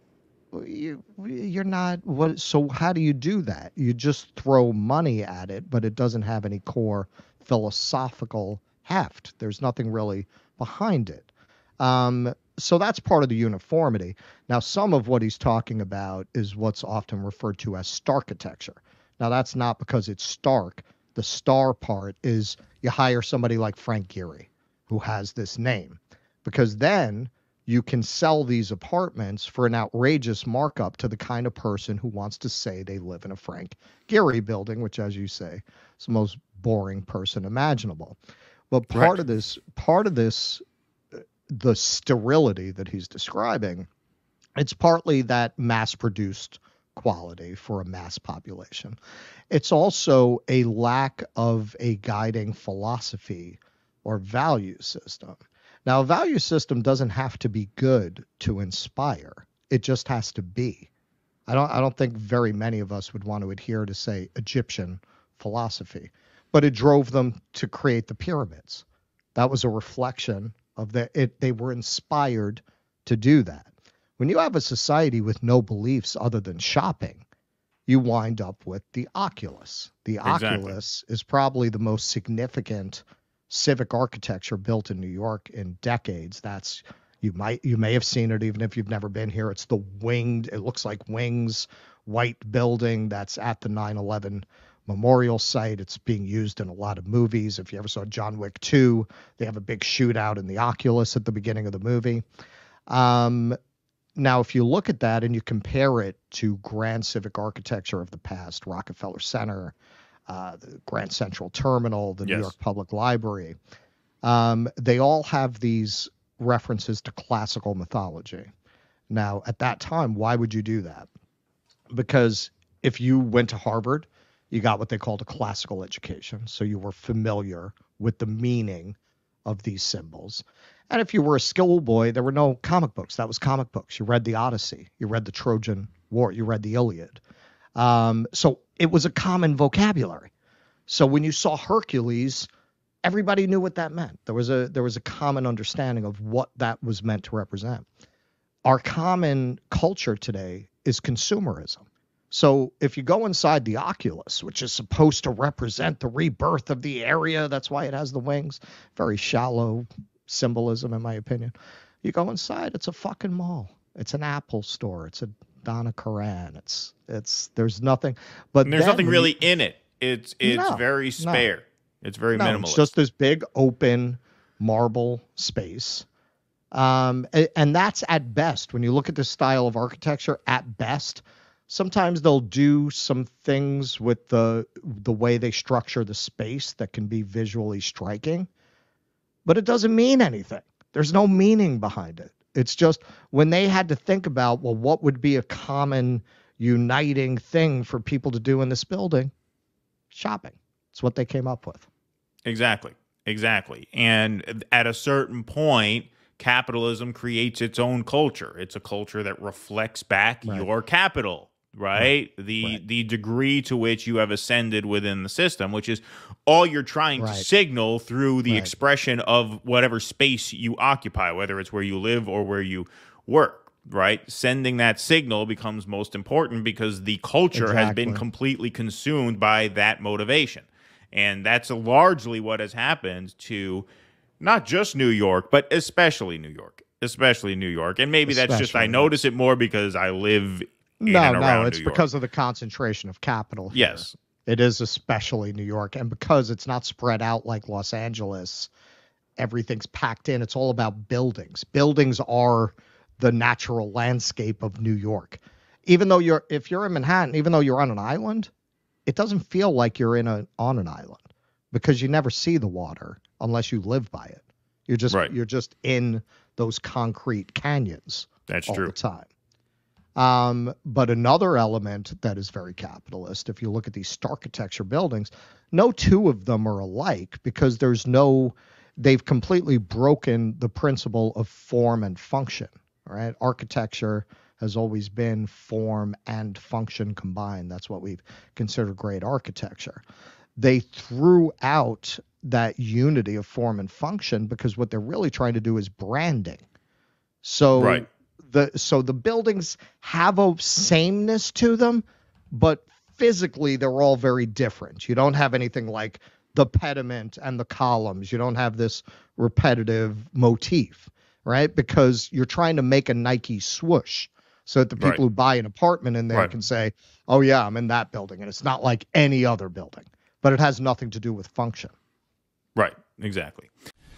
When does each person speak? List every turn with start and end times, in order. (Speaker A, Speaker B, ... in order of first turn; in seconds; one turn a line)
Speaker A: 0.5-38.2
Speaker A: 38.7-40.6
Speaker B: 38.9-39.2
Speaker A: 41.5-43.9
Speaker A: 44.6-49.0
Speaker A: 49.5-60.9
Speaker A: 61.5-77.2
Speaker A: 77.9-102.2
Speaker B: 80.2-80.8
Speaker A: 102.9-103.6
Speaker A: 104.2-109.8
Speaker A: 110.3-113.5
Speaker B: 112.2-112.5
Speaker A: 114.2-118.5
Speaker A: 119.1-121.1
Speaker A: 121.9-137.2
Speaker A: 137.8-140.3
Speaker A: 140.9-142.5
Speaker A: 143.1-147.8
Speaker A: 148.7-169.4
Speaker B: 168.6-172.9
Speaker A: 170.4-171.5
Speaker A: 172.3-176.1
Speaker A: 176.7-188.5
Speaker A: 189.4-199.3
Speaker A: 200.1-201.9
Speaker B: 202.5-233.9
Speaker A: 210.4-210.7
Speaker A: 211.9-212.8
Speaker A: 217.2-217.5
Speaker A: 218.5-218.7
Speaker A: 227.5-228.2
Speaker B: 234.4-242.0
Speaker A: 238.3-239.2
Speaker A: 241.0-248.7
Speaker B: 243.7-244.1
Speaker A: 249.4-258.5
Speaker A: 259.1-269.3
Speaker B: 268.5-268.9
Speaker A: 270.1-290.0
Speaker A: 290.6-296.6
Speaker A: 297.4-321.9
Speaker B: 297.7-298.1
Speaker B: 322.8-323.7